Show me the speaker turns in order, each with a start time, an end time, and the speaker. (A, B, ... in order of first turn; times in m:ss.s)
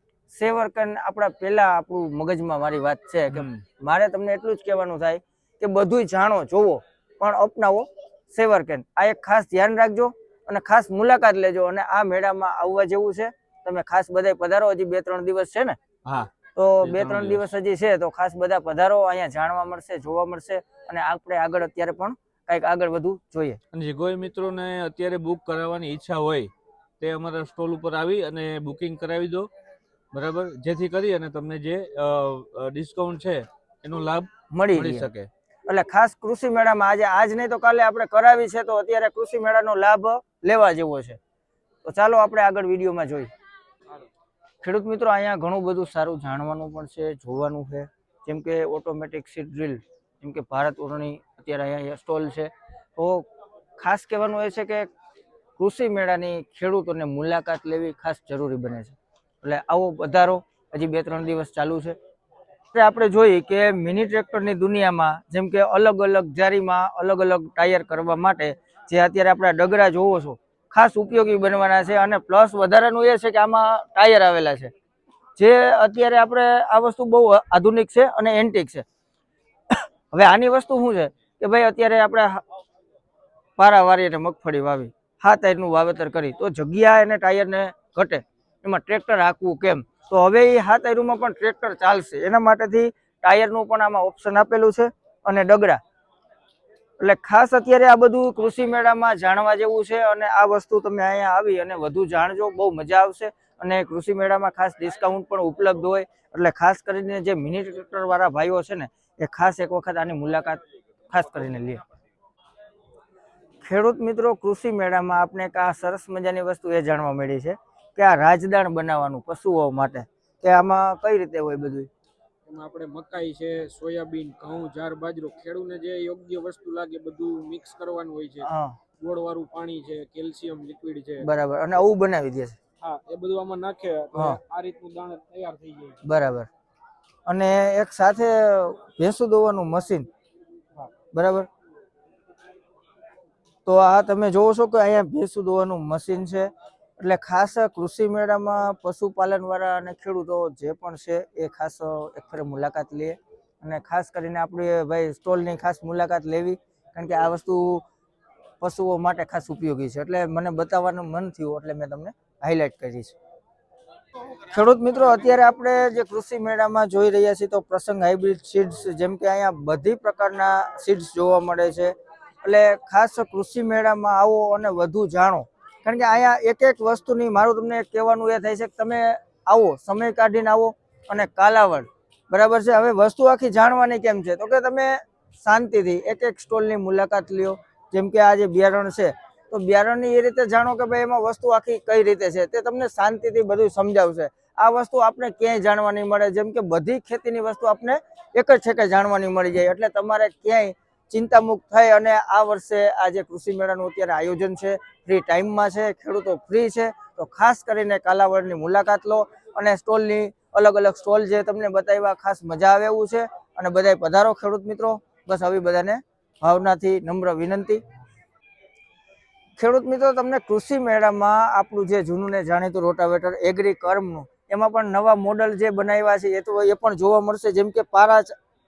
0:00.3-0:15.8 A
0:03.3-0:03.6 B
0:16.0-0:17.4 B
0:16.6-0:23.6 A
0:23.7-0:29.5 B
0:30.1-0:35.3 B
0:34.5-0:35.1 A
0:35.7-0:41.2 A
0:41.8-0:43.3 A
0:44.6-0:53.3 A
0:53.8-0:54.9 A
0:55.6-1:02.0 A
1:02.7-1:14.7 A
1:15.4-1:18.8 A
1:19.7-1:22.4 A
1:23.6-1:35.8 A
1:37.0-1:51.8 A
1:53.6-2:01.9 A
2:02.5-2:11.3 C
2:08.4-2:08.8 A
2:11.2-2:12.6 A
2:12.8-2:16.0 C
2:16.0-2:16.5 A
2:17.3-2:20.1 A
2:21.1-2:21.5 A
2:23.7-2:37.8 A
2:38.6-2:43.2 A
2:44.5-3:37.8 A
3:39.6-3:48.3 A